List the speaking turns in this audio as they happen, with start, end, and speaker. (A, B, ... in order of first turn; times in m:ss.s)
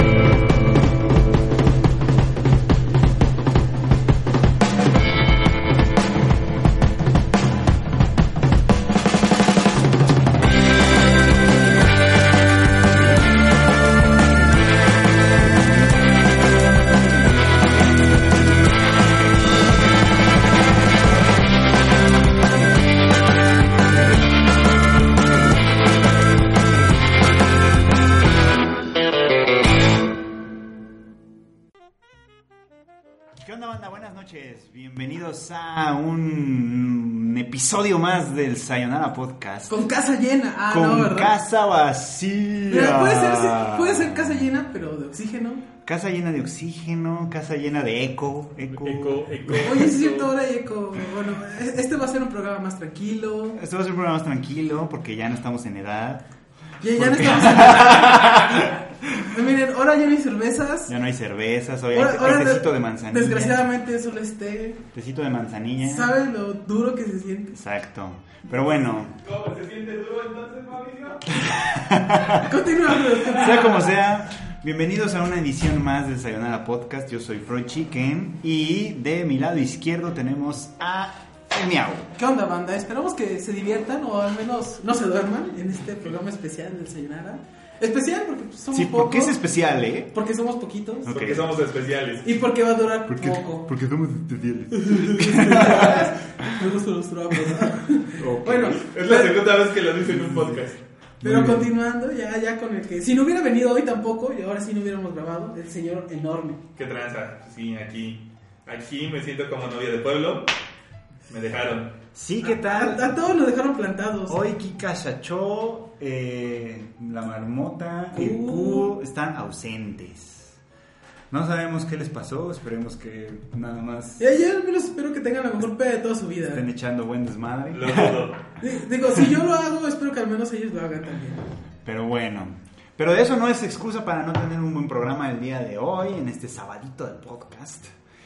0:33.4-0:39.8 A
0:39.7-0:41.3 B
0:40.7-0:44.3 A
0:42.7-0:45.6 B
0:45.8-0:49.7 A
0:48.7-0:50.3 C
0:49.6-0:53.6 B
0:53.6-0:56.2 A
0:56.8-0:58.7 B
0:56.8-0:59.4 A
0:59.3-1:00.9 B
1:00.9-1:03.6 A
1:01.9-1:04.8 B
1:04.9-1:06.1 A
1:05.8-1:07.6 B
1:07.5-1:09.2 A
1:09.2-1:11.6 C
1:11.3-1:12.5 A
1:12.3-1:13.9 B
1:13.3-1:22.1 A
1:22.2-1:29.4 B
1:28.7-1:30.1 A
1:30.1-1:31.1 B
1:31.0-1:31.5 A
1:31.0-1:32.3 C
1:32.2-1:33.7 B
1:33.1-1:36.6 A
1:34.8-1:39.4 B
1:38.2-1:38.8 A
1:38.9-1:40.8 C
1:40.0-1:40.6 A
1:41.2-1:41.7 A
1:41.2-1:46.6 B
1:46.8-1:50.5 C
1:51.3-1:51.9 C
1:52.1-1:53.1 A
1:52.4-1:54.4 B
1:54.3-2:00.6 A
1:58.1-1:58.9 B
2:01.3-2:04.2 A
2:04.2-2:06.6 B
2:06.5-2:08.3 A
2:07.7-2:08.4 C
2:08.6-2:11.4 B
2:11.8-2:17.9 A